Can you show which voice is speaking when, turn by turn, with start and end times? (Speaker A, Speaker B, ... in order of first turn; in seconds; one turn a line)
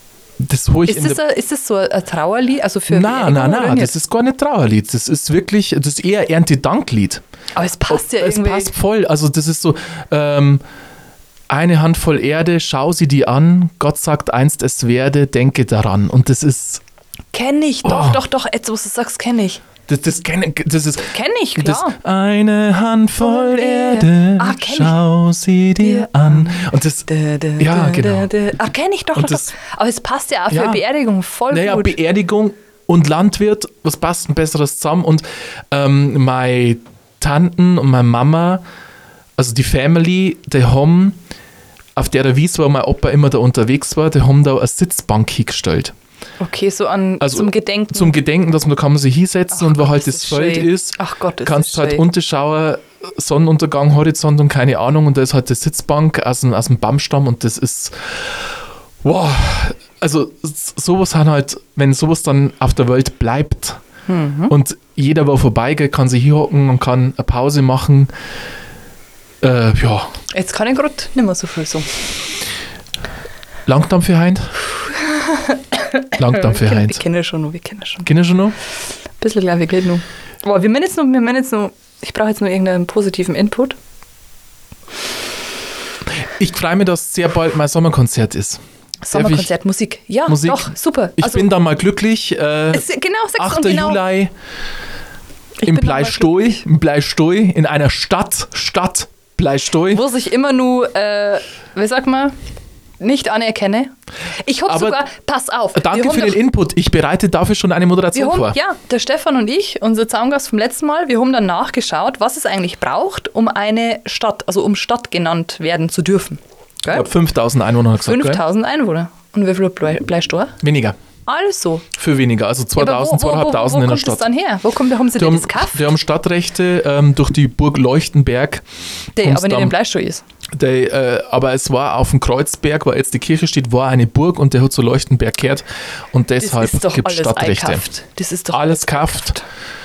Speaker A: 0.4-1.2
Speaker B: 0.9-4.0
Speaker A: 2.9-7.2
Speaker B: 7.6-8.7
Speaker A: 7.9-10.6
Speaker A: 11.5-16.8
Speaker B: 17.3-19.6
Speaker A: 17.9-18.2
Speaker A: 19.9-28.3
Speaker B: 21.1-22.0
Speaker B: 23.2-25.0
Speaker B: 25.8-32.0
Speaker A: 29.1-29.5
Speaker A: 30.5-30.8
Speaker A: 31.5-38.6
Speaker A: 39.4-41.2
Speaker A: 42.0-45.9
Speaker B: 46.4-48.1
Speaker A: 47.2-58.2
Speaker B: 49.5-52.0
Speaker A: 59.0-63.8
Speaker B: 64.1-64.5
Speaker A: 64.5-68.1
Speaker A: 69.4-70.1
Speaker B: 70.3-71.9
Speaker A: 73.7-74.6
Speaker B: 75.1-78.1
Speaker A: 76.1-77.0
Speaker A: 78.0-78.5
Speaker B: 79.2-83.8
Speaker A: 86.2-88.6
Speaker B: 89.0-91.5
Speaker A: 89.1-89.5
Speaker A: 90.3-94.3
Speaker B: 92.7-94.0
Speaker B: 95.6-96.6
Speaker A: 95.7-100.0
Speaker B: 99.9-102.3
Speaker B: 103.0-103.9
Speaker B: 104.5-106.4
Speaker A: 104.7-105.0
Speaker A: 105.7-108.6
Speaker B: 108.1-117.1
Speaker A: 116.9-118.4
Speaker B: 118.0-120.5
Speaker A: 120.6-121.0
Speaker B: 121.3-121.9
Speaker A: 121.9-124.3
Speaker B: 122.8-125.9
Speaker A: 125.2-128.7
Speaker B: 129.2-130.2
Speaker A: 129.2-129.8
Speaker A: 130.5-137.8
Speaker B: 136.4-139.4
Speaker A: 138.5-139.4